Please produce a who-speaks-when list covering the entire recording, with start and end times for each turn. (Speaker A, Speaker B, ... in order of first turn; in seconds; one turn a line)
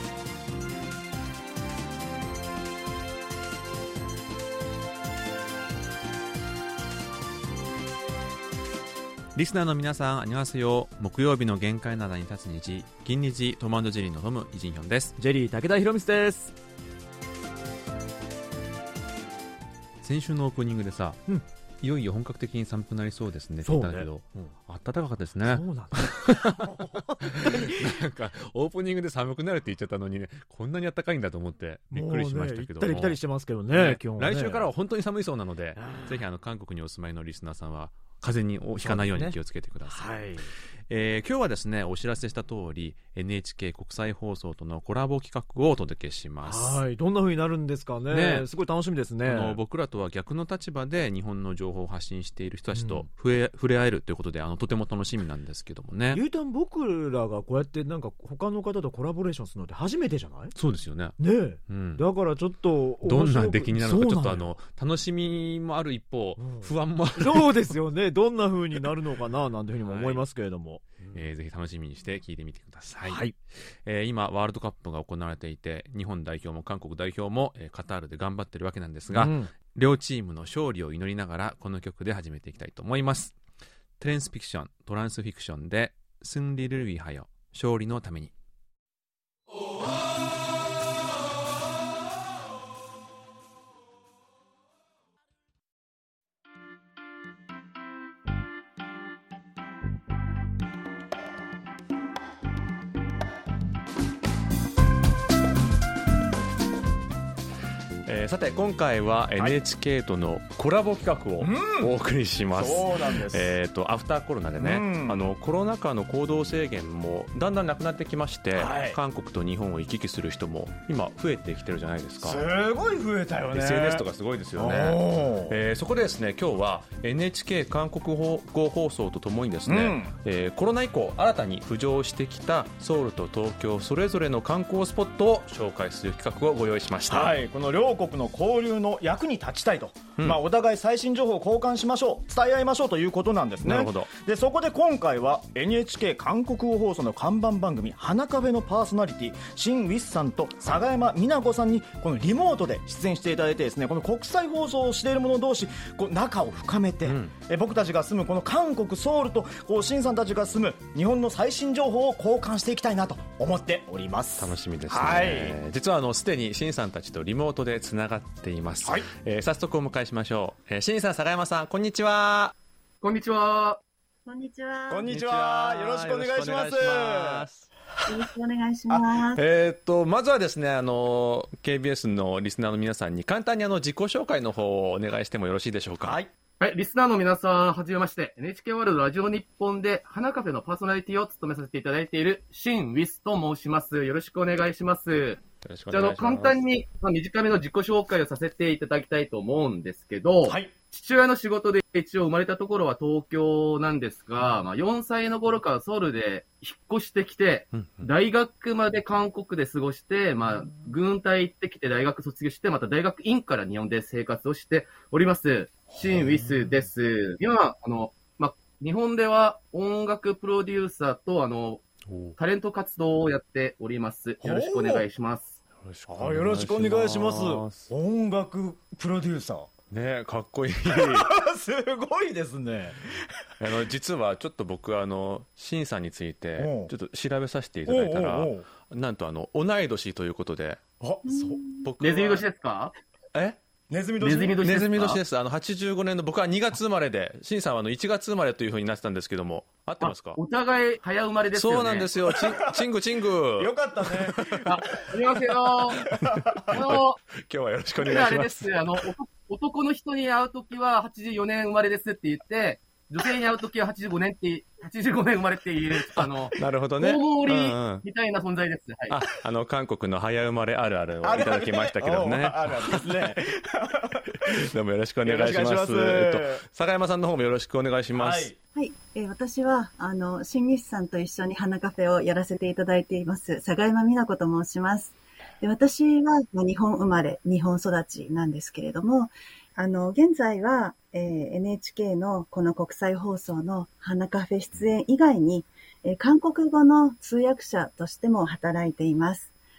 Speaker A: 9.3-15.2
Speaker B: 15.2-16.5
Speaker A: 20.0-21.2
Speaker A: 21.8-26.6
Speaker B: 23.6-24.5
Speaker B: 25.4-28.0
Speaker A: 27.4-33.2
Speaker B: 31.9-34.7
Speaker A: 33.7-40.2
Speaker B: 35.8-36.2
Speaker B: 38.8-40.5
Speaker A: 40.9-46.8
Speaker B: 46.4-49.6
Speaker A: 48.1-48.5
Speaker A: 49.2-56.2
Speaker B: 52.7-53.1
Speaker B: 56.1-60.5
Speaker A: 60.5-62.0
Speaker B: 61.2-64.5
Speaker A: 63.0-67.8
Speaker B: 66.4-71.2
Speaker A: 69.9-70.2
Speaker A: 71.1-83.4
Speaker B: 73.0-73.4
Speaker B: 79.1-79.5
Speaker A: 84.0-88.3
Speaker A: 108.1-122.5
Speaker C: 111.4-111.9
Speaker C: 112.5-113.5
Speaker C: 114.6-115.3
Speaker C: 118.5-119.0
Speaker C: 122.2-125.6
Speaker A: 123.5-137.3
Speaker C: 129.7-130.1
Speaker C: 137.1-165.6
Speaker A: 143.6-144.1
Speaker A: 157.1-157.3
Speaker A: 164.4-172.6
Speaker D: 173.0-173.8
Speaker E: 174.3-175.1
Speaker C: 174.9-177.5
Speaker A: 175.1-177.7
Speaker E: 178.1-179.4
Speaker A: 179.4-186.2
Speaker C: 186.0-186.3
Speaker D: 186.6-221.8
Speaker A: 195.6-196.6
Speaker C: 200.4-200.7
Speaker A: 207.7-208.1
Speaker C: 215.9-216.3
Speaker A: 222.1-222.4
Speaker D: 222.4-225.6
Speaker C: 224.4-225.1
Speaker A: 225.8-227.9
Speaker C: 226.1-229.7
Speaker A: 229.9-231.3
Speaker C: 230.9-233.4
Speaker A: 233.6-240.8
Speaker C: 236.6-236.9
Speaker C: 237.9-238.7
Speaker C: 241.0-241.6
Speaker E: 241.3-241.8
Speaker A: 241.7-242.4
Speaker D: 242.0-242.9
Speaker A: 243.3-243.6
Speaker C: 243.9-244.6
Speaker D: 244.2-245.2
Speaker A: 244.6-250.4
Speaker D: 250.0-252.1
Speaker A: 251.5-254.7
Speaker C: 253.6-254.7
Speaker D: 254.7-256.1
Speaker C: 256.1-256.6
Speaker A: 256.2-258.7
Speaker D: 256.7-257.2
Speaker D: 258.0-269.2
Speaker A: 266.6-268.0
Speaker A: 269.1-273.3
Speaker C: 271.2-274.6
Speaker A: 274.5-278.5
Speaker C: 275.2-276.6
Speaker C: 278.1-278.6
Speaker E: 278.8-299.5